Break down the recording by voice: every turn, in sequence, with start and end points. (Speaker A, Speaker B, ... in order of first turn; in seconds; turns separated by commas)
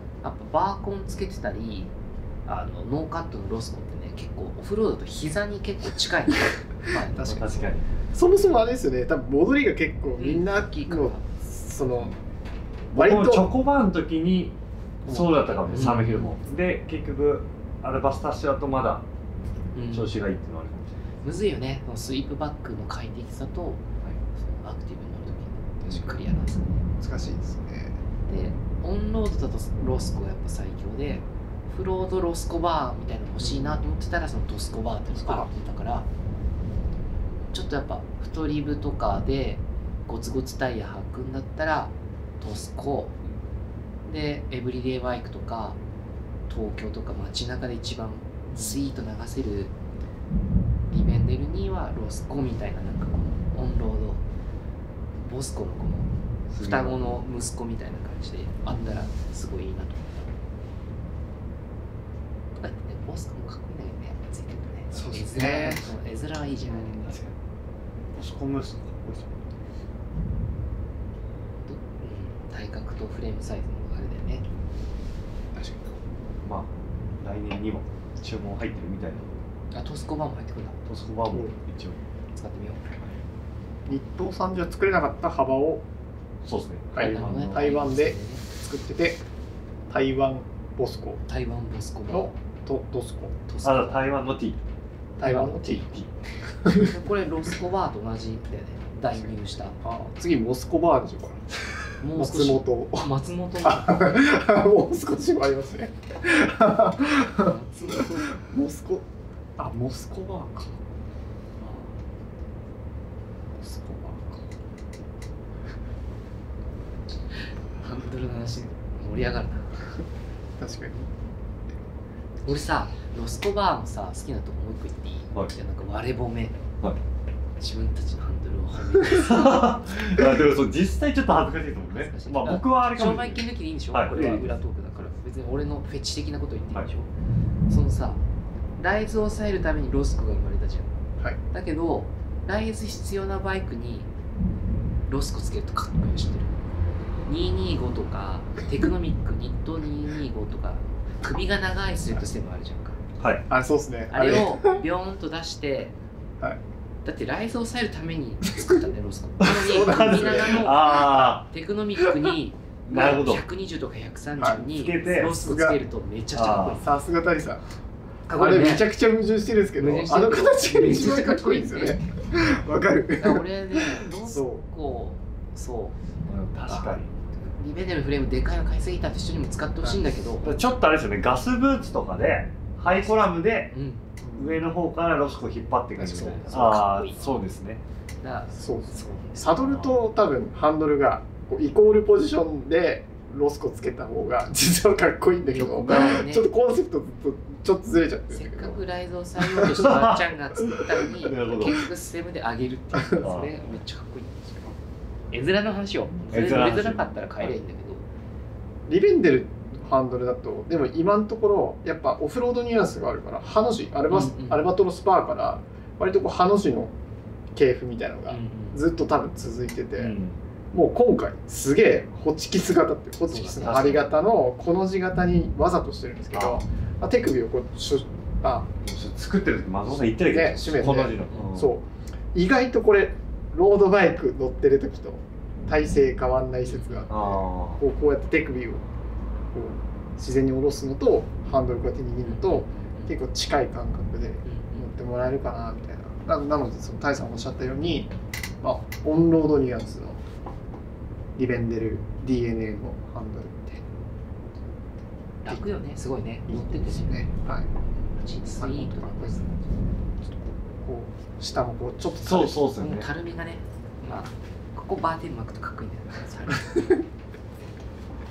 Speaker A: 0.2-1.9, Speaker A: 2.5-7.7, Speaker B: 7.2-7.9, Speaker C: 8.1-12.2, Speaker A: 10.2-11.3, Speaker C: 12.9-13.5, Speaker B: 12.9-19.1, Speaker C: 15.1-15.9, Speaker A: 15.7-16.3, Speaker A: 19.7-20.1, Speaker B: 19.9-21.0, Speaker A: 21.2-23.8, Speaker A: 24.4-26.8, Speaker C: 27.0-28.0, Speaker A: 28.3-36.1, Speaker C: 35.1-35.5, Speaker A: 37.5-43.1, Speaker A: 44.0-45.8, Speaker A: 46.5-49.7, Speaker C: 48.5-48.8, Speaker A: 50.9-54.2, Speaker A: 55.2-60.3, Speaker B: 56.5-57.2, Speaker C: 58.7-59.1, Speaker A: 62.6-67.1, Speaker C: 64.9-65.8, Speaker C: 66.6-67.1, Speaker B: 67.0-67.3, Speaker B: 68.1-69.4, Speaker A: 71.7-74.5, Speaker C: 75.5-75.9, Speaker B: 76.4-79.4, Speaker A: 79.7-80.8, Speaker B: 80.8-82.0, Speaker A: 82.3-82.8, Speaker C: 83.9-85.8, Speaker B: 86.4-87.7, Speaker C: 86.9-89.2, Speaker A: 87.0-88.4, Speaker C: 89.9-91.2, Speaker A: 91.3-92.3, Speaker C: 92.1-93.4, Speaker A: 93.5-94.0, Speaker B: 93.6-94.6, Speaker C: 95.2-95.9, Speaker A: 95.2-96.0, Speaker B: 95.8-96.1, Speaker A: 96.6-99.8, Speaker C: 96.6-96.9, Speaker C: 99.8-101.5, Speaker A: 102.0-104.1, Speaker C: 102.1-103.1, Speaker C: 103.6-110.8, Speaker A: 107.3-108.4, Speaker A: 111.6-111.9, Speaker C: 113.6-114.4, Speaker A: 117.8-119.7, Speaker C: 120.6-121.1, Speaker A: 122.5-126.6, Speaker A: 127.6-129.8, Speaker B: 129.0-135.1, Speaker A: 131.9-137.1, Speaker A: 137.7-138.2, Speaker A: 138.8-141.0, Speaker A: 141.5-144.1, Speaker A: 145.1-146.5, Speaker A: 147.3-153.0, Speaker B: 153.2-153.4, Speaker C: 153.5-154.8, Speaker A: 154.1-155.9, Speaker A: 157.0-166.9, Speaker B: 159.4-161.5, Speaker C: 159.6-161.0, Speaker B: 162.8-163.4, Speaker C: 164.4-164.7, Speaker B: 164.6-165.3, Speaker C: 165.4-165.8, Speaker B: 166.3-166.8, Speaker C: 166.8-167.6, Speaker A: 168.3-168.9, Speaker C: 168.3-174.6, Speaker A: 169.8-172.0, Speaker A: 173.2-176.0, Speaker B: 176.2-177.1, Speaker A: 176.7-180.6, Speaker B: 180.4-183.7, Speaker A: 183.7-184.0, Speaker C: 184.2-184.6, Speaker B: 184.3-187.8, Speaker C: 186.0-186.8, Speaker A: 186.3-187.3, Speaker A: 188.2-189.6, Speaker C: 188.5-198.8, Speaker B: 189.6-190.0, Speaker A: 195.4-196.5, Speaker A: 198.3-204.7, Speaker B: 199.6-201.9, Speaker B: 203.2-203.8, Speaker A: 205.3-208.1, Speaker B: 206.3-207.5, Speaker C: 208.9-216.9, Speaker A: 214.1-214.7, Speaker C: 217.5-220.1, Speaker A: 218.3-218.8, Speaker B: 220.0-220.4, Speaker C: 220.7-228.7, Speaker A: 223.3-224.1, Speaker B: 226.3-226.6, Speaker B: 228.8-231.7, Speaker C: 230.2-238.8, Speaker A: 236.6-237.1, Speaker B: 237.1-237.8, Speaker C: 239.5-250.2, Speaker A: 242.2-243.2, Speaker A: 244.4-244.9, Speaker C: 251.3-253.8, Speaker A: 255.4-257.3, Speaker C: 256.5-257.7, Speaker A: 258.1-259.6, Speaker C: 258.6-259.5, Speaker C: 260.2-262.6, Speaker B: 262.2-263.1, Speaker A: 262.8-267.0